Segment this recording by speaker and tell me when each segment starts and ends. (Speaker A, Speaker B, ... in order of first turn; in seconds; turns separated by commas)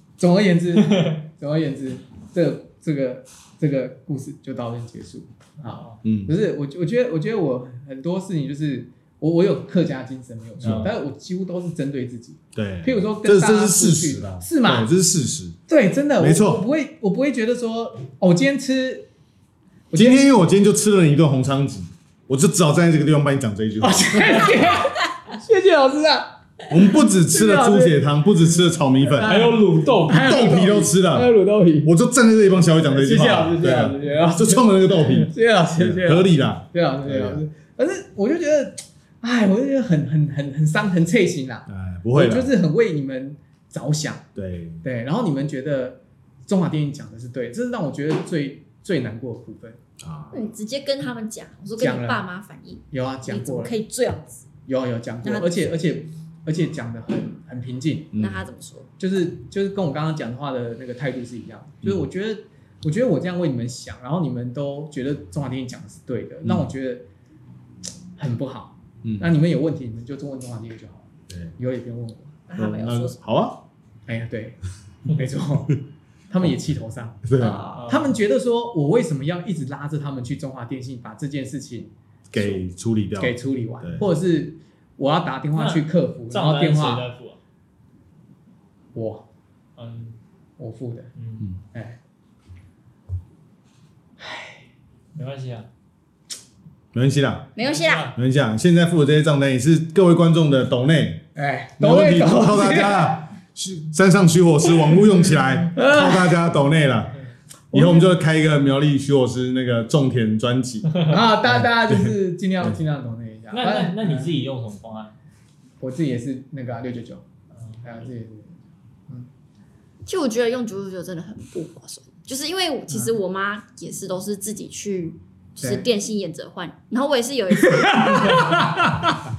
Speaker A: 0.2-14.9, Speaker B: 0.8-1.1, Speaker B: 5.7-6.0, Speaker C: 6.0-6.3, Speaker B: 10.6-11.0, Speaker C: 12.5-15.6, Speaker A: 15.7-19.1, Speaker C: 16.2-16.6, Speaker A: 19.9-20.3, Speaker C: 19.9-24.7, Speaker A: 23.8-28.0, Speaker C: 26.7-29.3, Speaker A: 29.1-31.9, Speaker B: 29.2-30.3, Speaker C: 30.1-31.3, Speaker C: 31.8-37.4, Speaker A: 32.8-44.2, Speaker C: 41.7-42.5, Speaker C: 44.4-44.8, Speaker A: 44.8-49.8, Speaker C: 50.0-50.5, Speaker D: 50.3-54.5, Speaker A: 51.8-52.2, Speaker A: 52.9-53.7, Speaker A: 54.7-58.1, Speaker C: 58.1-58.4, Speaker D: 58.2-58.9, Speaker A: 59.0-67.0, Speaker A: 68.2-72.4, Speaker C: 69.0-69.3, Speaker D: 72.5-73.2, Speaker C: 72.5-73.6, Speaker A: 74.1-82.6, Speaker C: 77.2-77.7, Speaker D: 77.4-77.8, Speaker B: 77.7-78.2, Speaker C: 82.3-84.1, Speaker A: 83.2-87.1, Speaker B: 85.6-87.4, Speaker A: 88.9-89.2, Speaker B: 89.8-90.2, Speaker A: 90.6-91.1, Speaker B: 91.2-91.5, Speaker A: 91.7-92.0, Speaker A: 94.2-94.6, Speaker B: 95.2-95.7, Speaker C: 96.9-97.5, Speaker D: 97.6-98.1, Speaker B: 97.6-98.1, Speaker C: 98.2-101.2, Speaker A: 101.3-103.3, Speaker C: 101.8-107.2, Speaker A: 105.7-106.4, Speaker A: 107.7-108.1, Speaker C: 107.7-112.8, Speaker A: 111.1-114.3, Speaker B: 113.5-115.2, Speaker A: 115.8-117.2, Speaker B: 117.6-118.1, Speaker A: 117.8-118.6, Speaker D: 120.1-128.7, Speaker A: 127.7-129.2